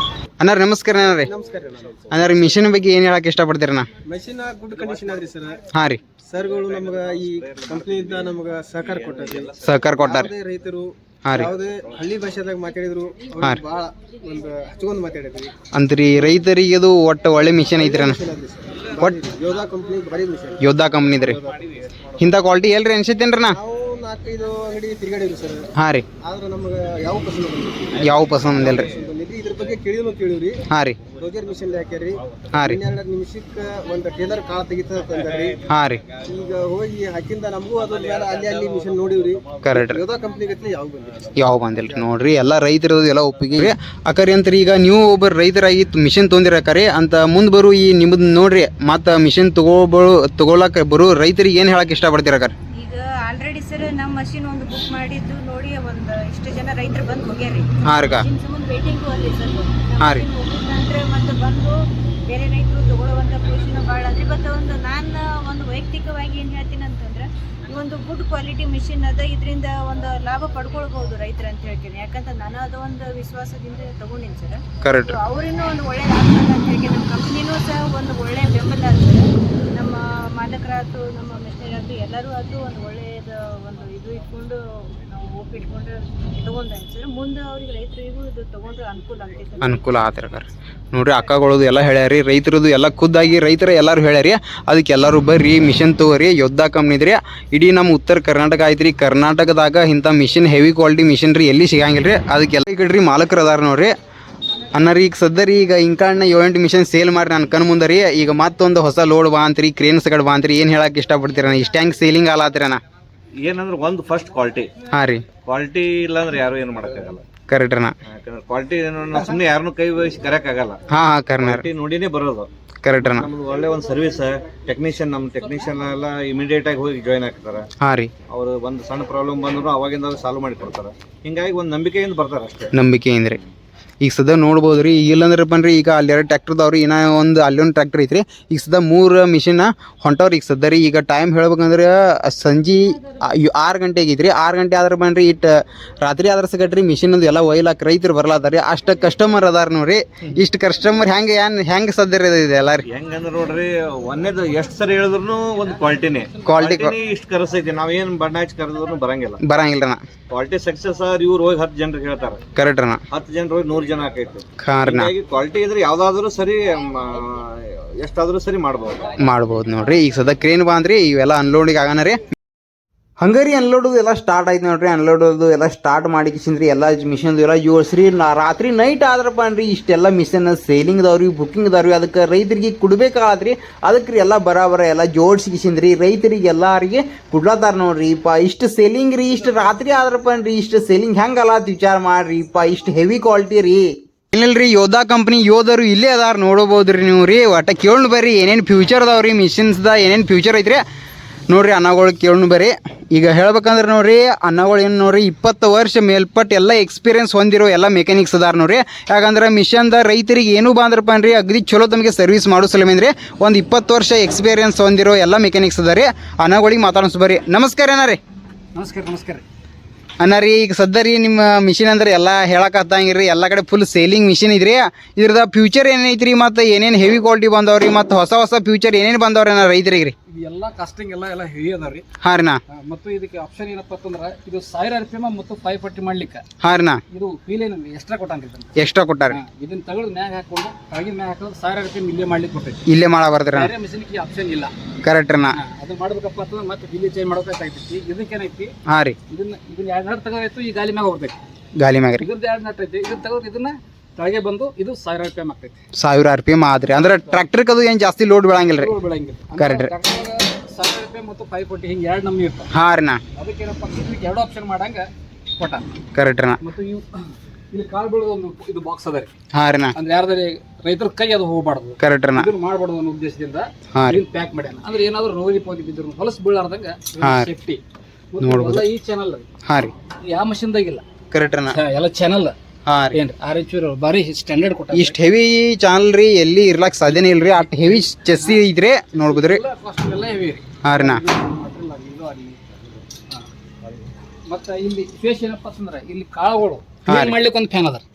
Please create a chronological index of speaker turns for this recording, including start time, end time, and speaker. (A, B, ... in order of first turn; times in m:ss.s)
0:00.4-0:01.3 A
0:01.1-0:02.7 B
0:02.1-0:03.9 A
0:04.1-0:05.6 B
0:05.7-0:06.0 A
0:06.3-0:15.5 B
0:06.7-0:08.3 C
0:09.1-0:09.6 C
0:09.6-0:10.3 A
0:11.2-0:11.5 A
0:15.7-0:18.2 A
0:17.7-0:21.8 B
0:20.6-0:21.4 A
0:22.2-0:23.6 A
0:23.5-0:25.6 B
0:25.8-0:26.0 A
0:26.2-0:30.6 B
0:28.0-0:28.9 A
0:30.7-0:31.0 A
0:31.2-0:35.6 B
0:32.5-0:32.8 A
0:35.7-0:36.0 A
0:36.2-0:42.1 B
0:38.2-0:38.5 C
0:39.6-0:40.0 A
0:41.3-0:52.5 A
0:52.7-1:01.7 D
0:57.8-0:58.2 A
1:02.3-1:30.4 D
1:14.8-1:15.2 A
1:29.6-1:43.9 A
1:44.7-1:52.8 A
1:53.4-1:54.7 C
1:54.9-1:55.2 A
1:55.4-1:57.2 C
1:57.5-1:57.9 A
1:58.1-2:00.8 C
2:00.9-2:01.6 A
2:01.4-2:07.7 C
2:02.8-2:03.3 A
2:07.8-2:08.1 A
2:08.3-2:12.7 C
2:12.7-2:13.4 A
2:14.0-2:25.5 A
2:26.0-2:32.8 A
2:32.8-2:39.4 C
2:36.4-2:36.9 A
2:39.4-2:40.0 A
2:40.3-2:42.4 C
2:42.6-2:43.0 A
2:43.1-2:49.2 C
2:44.6-2:45.1 A
2:49.2-2:52.2 A
2:53.2-3:20.8 A
3:21.5-3:38.2 A
3:38.7-3:39.4 E
3:40.2-3:50.1 A
3:50.3-3:52.0 E
3:52.2-3:52.6 A
3:52.7-3:56.4 E
3:56.6-3:57.0 A
3:57.1-3:58.7 E
3:58.8-3:59.4 A
3:59.3-4:02.8 E
4:02.9-4:03.7 A
4:03.5-4:04.7 E
4:05.0-4:05.6 A
4:05.5-4:08.7 E
4:08.9-4:09.2 A
4:09.3-4:11.4 E
4:11.8-4:12.3 A
4:12.2-4:15.8 E
4:16.0-4:18.9 A
4:18.6-4:22.7 E
4:19.6-4:19.9 A
4:22.7-4:23.2 A
4:23.4-4:25.0 E
4:25.6-4:25.8 E
4:26.1-4:26.6 A
4:26.6-4:29.3 E
4:29.5-4:30.0 A
4:29.9-4:37.8 E
4:32.0-4:32.5 A
4:33.9-4:34.2 A
4:37.2-4:37.5 A
4:38.3-4:39.4 E
4:38.4-4:38.8 A
4:39.6-4:39.9 A
4:40.3-4:41.0 E
4:41.3-4:41.8 A
4:41.7-4:42.5 E
4:42.8-4:43.2 A
4:43.1-4:45.1 E
4:44.9-4:49.6 A
4:49.2-4:53.5 E
4:50.8-4:51.2 A
4:54.5-4:58.0 E
4:57.1-4:57.4 A